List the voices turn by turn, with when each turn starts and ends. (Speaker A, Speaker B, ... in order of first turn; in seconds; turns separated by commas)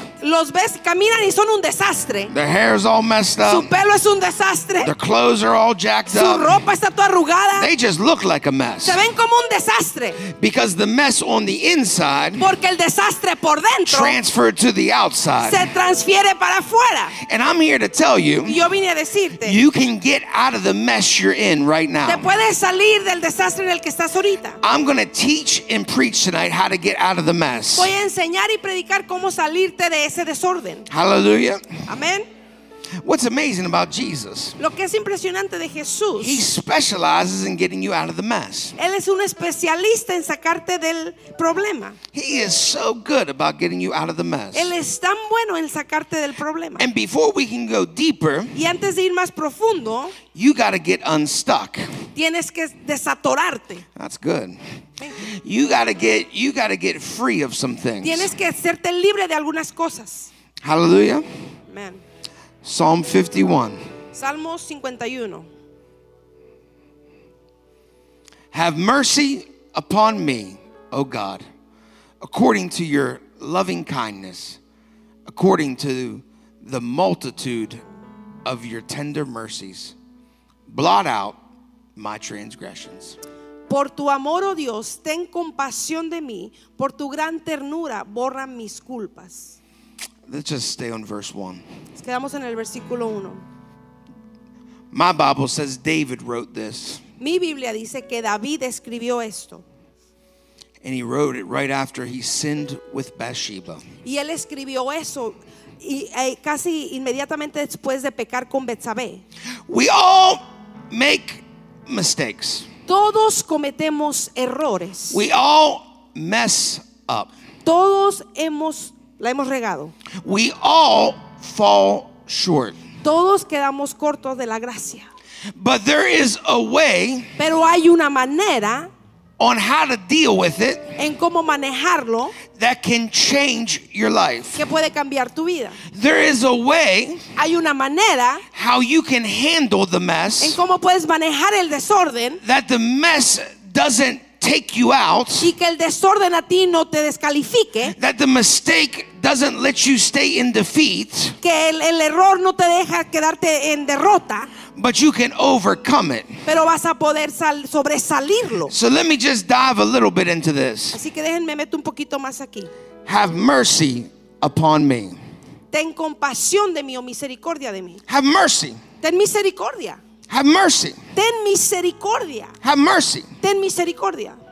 Speaker A: 0.2-2.3, Speaker B: 2.3-3.7, Speaker A: 3.4-4.9, Speaker B: 4.8-6.6, Speaker A: 6.1-7.7, Speaker B: 7.6-9.0, Speaker A: 8.8-10.2, Speaker B: 10.2-12.5, Speaker A: 12.4-14.2, Speaker B: 13.9-15.7, Speaker A: 15.4-17.1, Speaker B: 17.2-18.6, Speaker A: 18.4-19.6, Speaker B: 19.4-22.3, Speaker A: 22.1-24.6, Speaker B: 24.6-27.9, Speaker A: 27.8-30.9, Speaker B: 30.9-31.6, Speaker A: 31.9-32.3, Speaker B: 33.0-34.6, Speaker A: 34.6-36.4, Speaker B: 36.2-38.8, Speaker A: 38.8-42.0, Speaker B: 42.1-44.7, Speaker A: 44.5-46.8, Speaker B: 46.8-48.6, Speaker A: 48.5-50.2, Speaker B: 50.3-51.9, Speaker A: 52.1-53.8, Speaker B: 54.0-54.6, Speaker A: 55.0-55.3, Speaker B: 55.2-58.3, Speaker A: 58.0-60.3, Speaker B: 60.6-61.3, Speaker A: 61.7-62.0, Speaker B: 62.6-63.8, Speaker A: 64.1-65.5, Speaker B: 68.5-71.5, Speaker B: 72.2-74.6, Speaker B: 75.3-77.8, Speaker B: 78.5-80.0, Speaker B: 80.7-81.4, Speaker B: 82.0-83.2, Speaker A: 83.7-89.6, Speaker B: 90.3-91.6, Speaker A: 92.0-93.4, Speaker B: 94.9-97.0, Speaker A: 97.2-99.6, Speaker B: 100.8-103.8, Speaker A: 104.0-109.2, Speaker B: 109.7-112.7, Speaker A: 112.9-115.2, Speaker B: 115.1-117.3, Speaker A: 117.7-119.9, Speaker B: 120.2-122.8, Speaker A: 123.0-125.1, Speaker B: 125.5-127.3, Speaker A: 127.4-128.9, Speaker B: 129.4-130.9, Speaker A: 131.0-132.4, Speaker B: 132.5-134.6, Speaker A: 134.6-135.8, Speaker B: 135.9-137.3, Speaker A: 137.4-138.4, Speaker B: 138.5-140.6, Speaker A: 140.4-142.4, Speaker B: 142.4-145.5, Speaker A: 145.4-147.9, Speaker B: 147.9-151.4, Speaker A: 151.4-154.5, Speaker B: 154.7-156.3, Speaker A: 156.5-158.7, Speaker B: 158.7-161.0, Speaker A: 160.9-162.7, Speaker B: 163.1-165.2, Speaker A: 165.7-168.0, Speaker B: 168.1-168.8, Speaker A: 169.0-170.0, Speaker B: 170.3-171.0, Speaker A: 171.2-172.6, Speaker B: 172.6-173.3, Speaker A: 173.4-174.4